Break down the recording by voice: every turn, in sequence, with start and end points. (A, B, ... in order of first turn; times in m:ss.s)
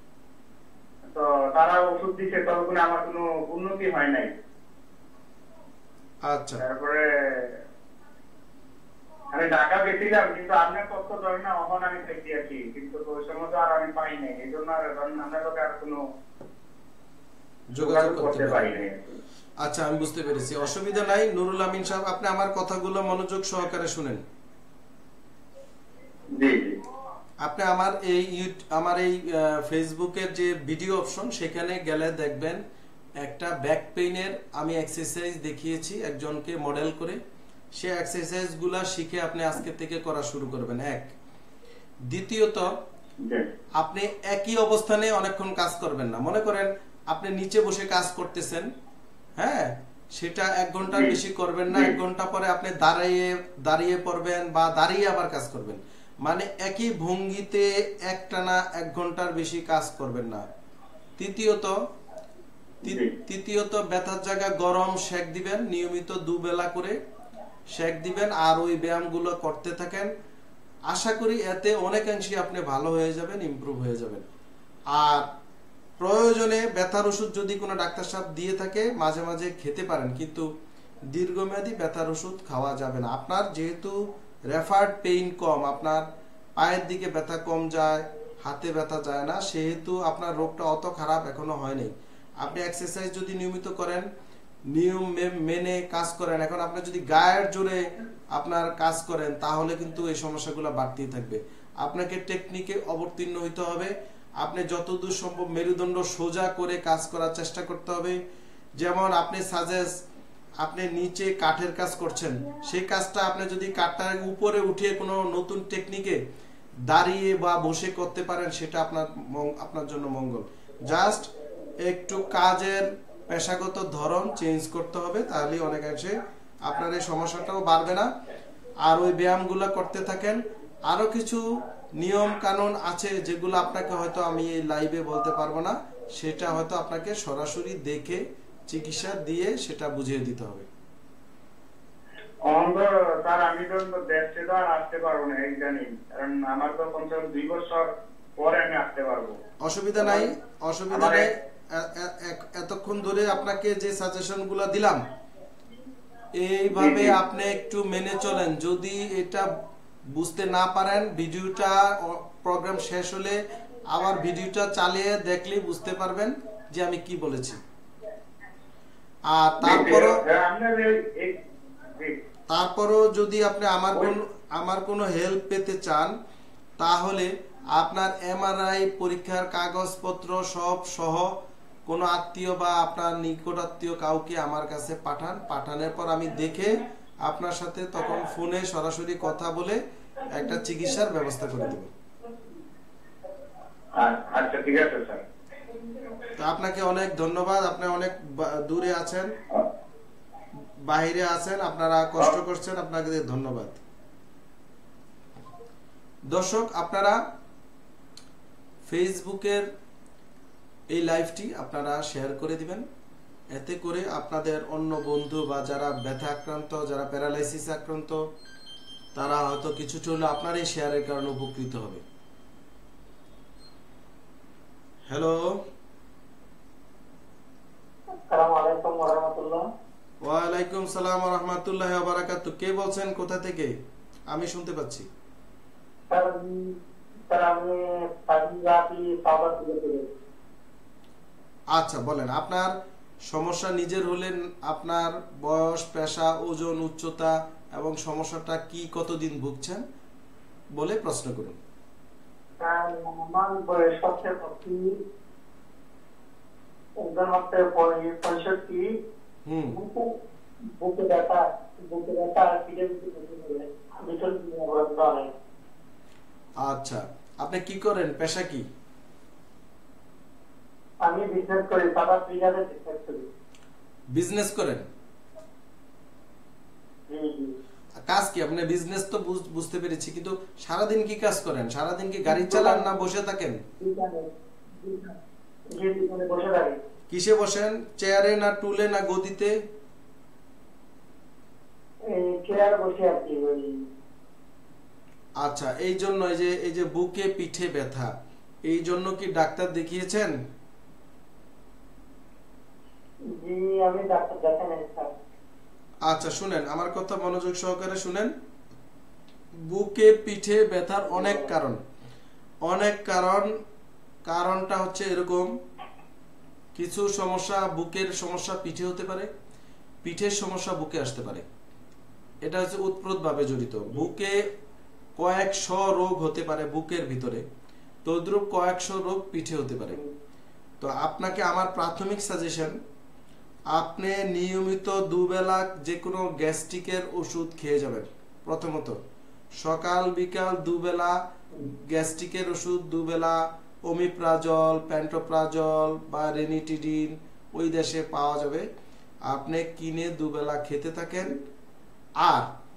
0:01.1-0:04.3 A
0:06.3-0:06.6 B
0:06.6-0:07.6 A
0:09.3-0:16.0 A
0:17.7-0:18.6 B
0:17.8-0:19.2 A
0:19.6-0:24.2 B
0:26.3-0:26.8 A
0:27.4-0:32.6 B
0:33.2-0:37.2 B
0:37.8-0:41.1 B
0:42.1-0:42.7 B
0:43.8-0:48.7 B
0:49.4-1:00.4 B
1:01.2-1:01.8 B
1:02.8-1:07.0 B
1:02.9-1:03.1 A
1:07.7-1:10.1 B
1:10.9-1:14.2 B
1:14.9-1:15.3 B
1:16.0-1:20.5 B
1:21.1-1:26.0 B
1:26.6-1:34.0 B
1:34.7-1:37.8 B
1:38.3-1:48.2 B
1:48.8-1:49.9 B
1:50.6-1:56.2 B
1:56.9-2:01.3 B
2:01.8-2:08.1 B
2:08.8-2:11.4 B
2:12.0-2:20.7 B
2:22.4-2:29.4 A
2:29.6-2:35.0 B
2:30.0-2:30.3 A
2:31.0-2:31.3 A
2:36.4-2:39.5 B
2:36.7-2:37.2 A
2:40.1-2:47.6 B
2:49.3-2:50.2 B
2:49.6-2:51.4 A
2:52.5-2:56.1 B
2:56.8-3:01.3 B
3:01.9-3:11.9 B
3:14.0-3:15.2 A
3:16.4-3:19.3 B
3:20.9-3:23.8 B
3:26.3-3:27.2 B
3:28.9-3:29.7 B
3:30.9-3:32.8 B
3:33.5-3:38.2 B
3:39.1-3:42.0 B
3:45.1-3:45.6 B
3:48.3-3:49.7 C
3:50.2-3:53.7 B
3:54.3-3:55.1 B
3:56.1-3:56.8 C
3:57.3-4:00.1 C
4:01.7-4:02.7 B
4:03.3-4:09.8 B
4:10.8-4:11.6 B
4:12.6-4:15.0 C
4:17.0-4:18.9 C
4:19.5-4:19.8 B
4:19.7-4:20.1 C
4:20.8-4:25.3 C
4:26.6-4:28.7 B
4:31.0-4:33.2 C
4:34.1-4:34.9 B
4:37.1-4:37.5 C
4:38.1-4:43.6 B
4:42.3-4:42.9 C
4:43.8-4:44.3 C
4:44.8-4:45.2 C
4:45.8-4:46.8 C
4:47.1-4:49.6 B
4:52.1-4:53.8 C
4:55.4-4:58.1 B
4:58.7-5:00.4 B
5:03.4-5:05.1 C
5:06.1-5:08.3 B
5:09.7-5:11.8 B
5:12.7-5:13.5 B
5:14.3-5:15.5 B
5:16.8-5:19.3 B
5:20.0-5:21.4 B
5:22.4-5:24.4 B
5:25.2-5:27.4 B
5:28.0-5:30.0 B
5:30.8-5:32.8 B
5:33.7-5:39.0 B
5:39.6-5:48.7 B
5:49.3-5:51.4 B
5:52.2-5:52.5 B